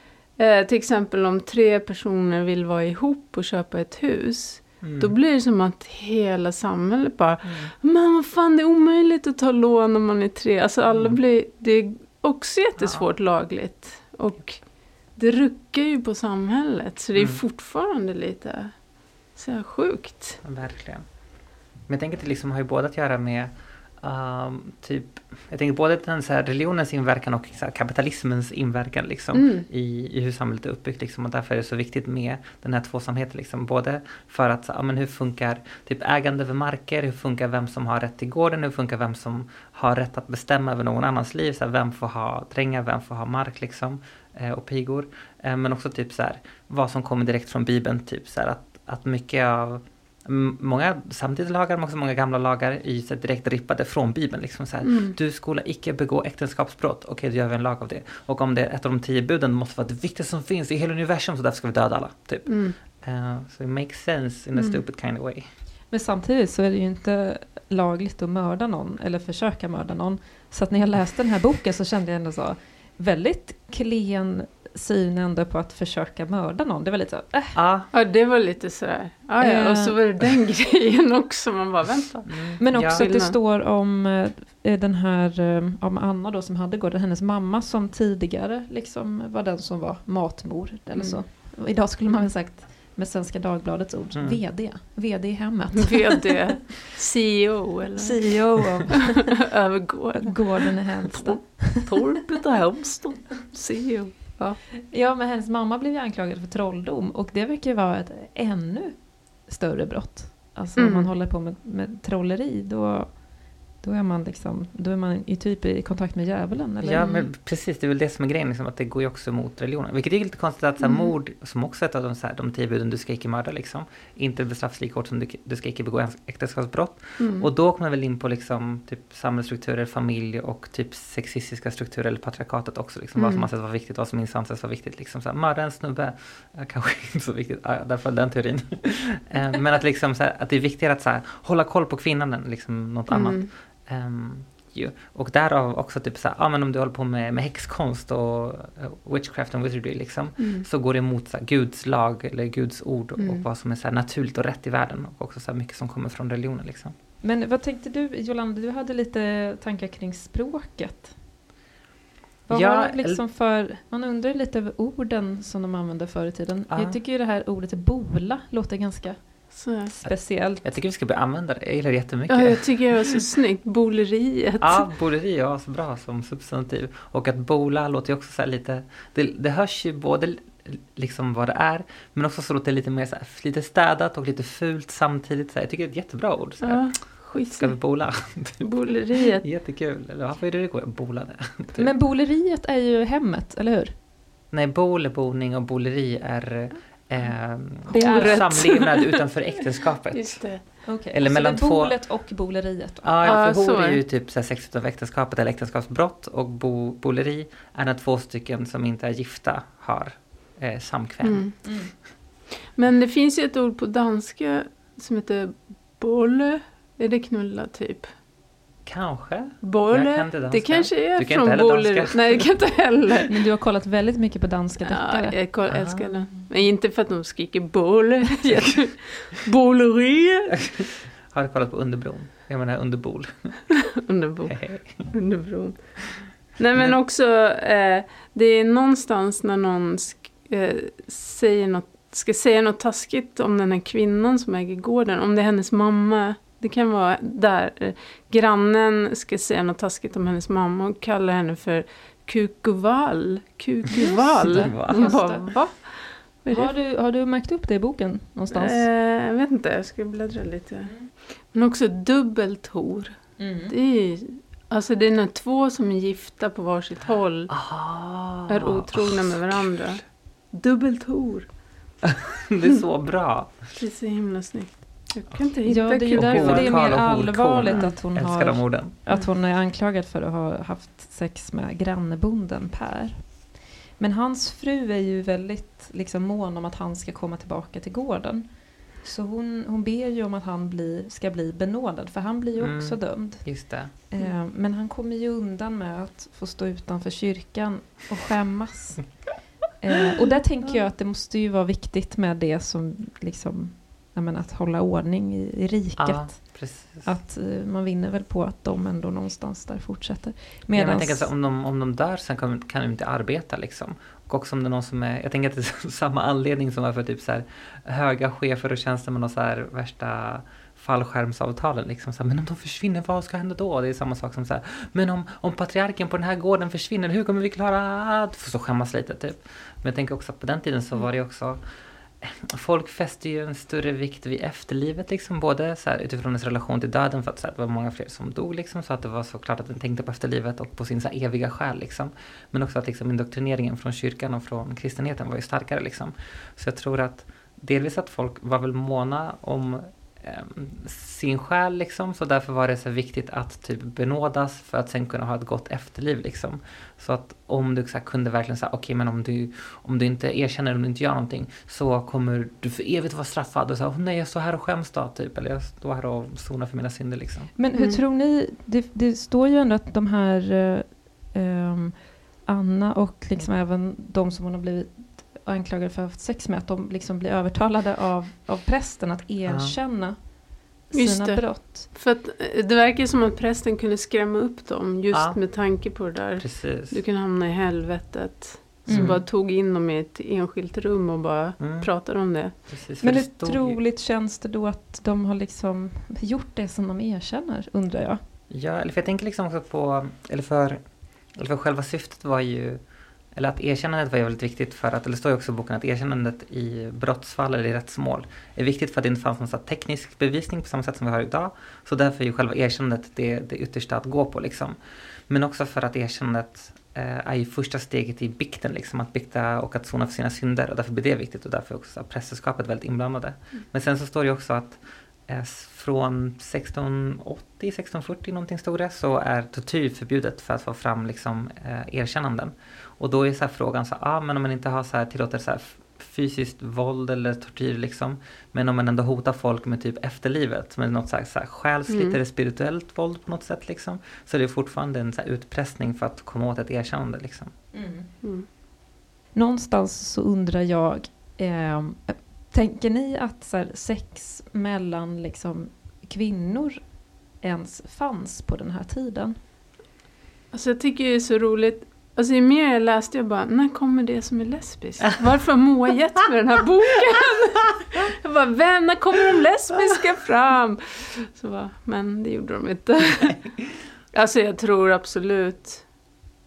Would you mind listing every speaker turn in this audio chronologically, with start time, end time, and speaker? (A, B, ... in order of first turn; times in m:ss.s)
0:00.4-0:14.6 A
0:04.8-0:05.1 B
0:07.5-0:07.7 B
0:12.8-0:13.1 B
0:15.2-0:18.8 A
0:17.2-0:17.4 B
0:19.3-0:20.4 A
0:20.4-0:21.0 B
0:21.9-0:23.5 B
0:24.0-1:05.5 B
0:29.3-0:29.7 A
0:54.8-0:55.2 A
1:02.5-1:02.8 A
1:04.5-1:04.8 A
1:05.9-1:17.6 C
1:17.5-1:17.9 B
1:17.9-1:23.4 A
1:19.4-1:20.0 C
1:22.3-1:23.1 B
1:22.6-1:36.3 C
1:31.0-1:31.2 A
1:34.2-1:34.4 B
1:35.8-1:38.4 A
1:38.0-1:39.4 C
1:39.5-1:44.6 A
1:40.2-1:41.9 C
1:44.8-1:53.2 C
1:50.8-1:51.1 A
1:53.8-1:57.1 C
1:56.8-2:36.9 B
1:57.0-1:57.3 A
2:00.8-2:01.1 A
2:07.2-2:07.5 A
2:13.2-2:13.5 A
2:23.1-2:23.5 A
2:30.4-2:30.6 A
2:33.2-2:33.4 A
2:37.2-2:41.1 C
2:42.5-2:50.7 C
2:42.5-2:43.2 B
2:46.7-2:47.0 B
2:49.5-2:49.9 A
2:50.6-2:53.0 B
2:52.3-2:54.8 A
2:54.6-3:08.7 B
3:06.6-3:07.8 A
3:08.6-3:09.4 A
3:09.4-3:11.9 B
3:11.8-3:13.9 C
3:14.5-3:22.0 B
3:17.9-3:18.6 C
3:17.9-3:19.2 A
3:20.1-3:20.6 A
3:20.8-3:23.4 C
3:23.0-3:31.5 B
3:23.2-3:24.0 A
3:31.2-3:31.5 A
3:31.6-3:31.9 C
3:32.7-3:38.1 A
3:38.8-3:42.5 B
3:39.6-3:43.3 A
3:43.3-3:45.4 C
3:44.8-3:50.7 A
3:45.7-3:46.2 B
3:50.8-3:53.7 B
3:54.0-3:56.0 A
3:54.5-3:55.1 B
3:56.5-4:16.7 A
4:14.0-4:15.8 C
4:14.4-4:15.1 B
4:16.5-4:18.8 C
4:18.5-4:27.5 A
4:23.4-4:23.7 C
4:27.5-4:29.7 B
4:28.5-4:31.5 A
4:32.0-4:33.6 B
4:33.8-4:36.8 A
4:35.6-4:43.4 C
4:36.1-4:38.9 B
4:44.0-4:59.2 C
4:52.6-4:53.9 B
4:59.8-5:11.3 C
5:06.0-5:07.1 B
5:10.7-5:31.6 B
5:32.2-6:07.5 B
6:07.6-6:20.3 C
6:07.7-6:08.0 A
6:19.5-6:19.8 B
6:20.9-6:21.9 C
6:20.9-6:32.6 A
6:25.1-6:25.4 B
6:26.4-6:27.0 B
6:28.9-6:29.2 C
6:28.9-6:29.2 B
6:31.6-6:31.9 B
6:32.5-6:33.8 B
6:33.0-6:38.2 C
6:38.5-6:40.8 B
6:41.4-6:42.8 B
6:43.4-6:54.8 B
6:55.3-7:27.5 B
7:21.9-7:22.2 A
7:27.7-7:28.1 C
7:28.2-7:28.5 A
7:29.3-7:39.4 C
7:40.5-7:53.4 A
7:54.1-7:55.8 A